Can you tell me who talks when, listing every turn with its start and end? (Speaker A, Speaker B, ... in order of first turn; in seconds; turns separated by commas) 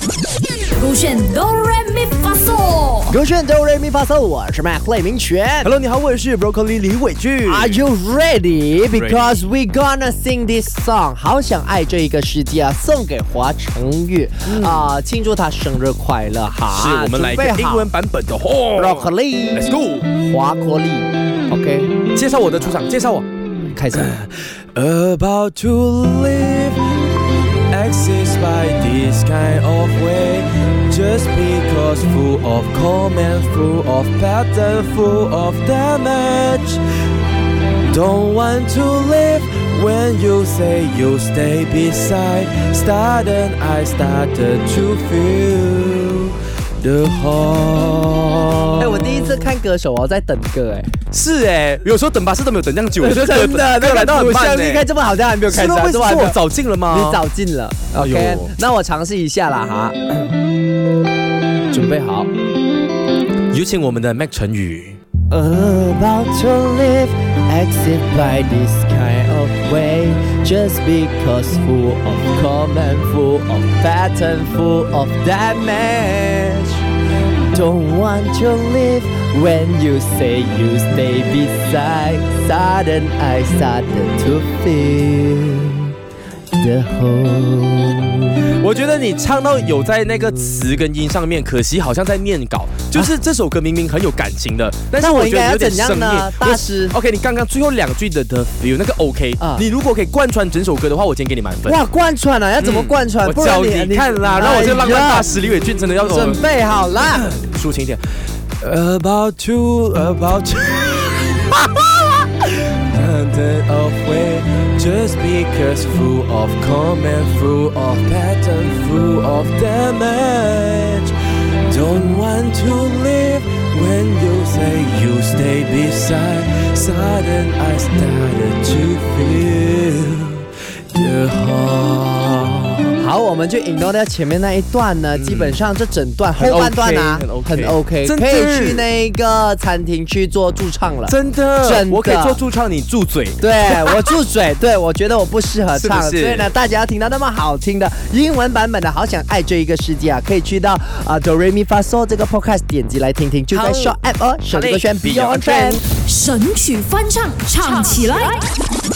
Speaker A: 0.8-3.2, Speaker B: 3.1-5.7, Speaker C: 5.6-7.8, Speaker B: 7.5-17.9, Speaker C: 8.8-9.4, Speaker C: 14.4-14.8, Speaker C: 16.7-20.1, Speaker B: 18.8-19.6, Speaker B: 20.3-22.0, Speaker C: 22.1-23.3, Speaker B: 23.7-24.1, Speaker C: 23.9-26.8, Speaker C: 27.7-36.8, Speaker C: 37.9-49.5, Speaker B: 48.8-50.9, Speaker C: 51.1-54.9, Speaker B: 53.0-60.3, Speaker C: 55.5-57.2, Speaker C: 58.0-58.5, Speaker B: 61.7-62.3, Speaker C: 63.5-65.0, Speaker B: 65.3-76.8, Speaker B: 77.5-85.9, Speaker B: 86.5-88.4, Speaker C: 88.5-101.8, Speaker B: 95.0-97.0, Speaker B: 99.4-99.7, Speaker B: 101.7-105.3, Speaker C: 102.6-106.4, Speaker B: 106.0-107.3, Speaker C: 107.0-108.0, Speaker C: 108.6-121.2, Speaker C: 121.7-133.0, Speaker B: 133.0-142.4, Speaker C: 135.1-135.6, Speaker C: 136.3-138.9, Speaker C: 141.1-144.2, Speaker B: 143.4-155.8, Speaker C: 145.7-146.5, Speaker C: 153.5-154.0, Speaker C: 154.5-155.8, Speaker A: 156.0-158.4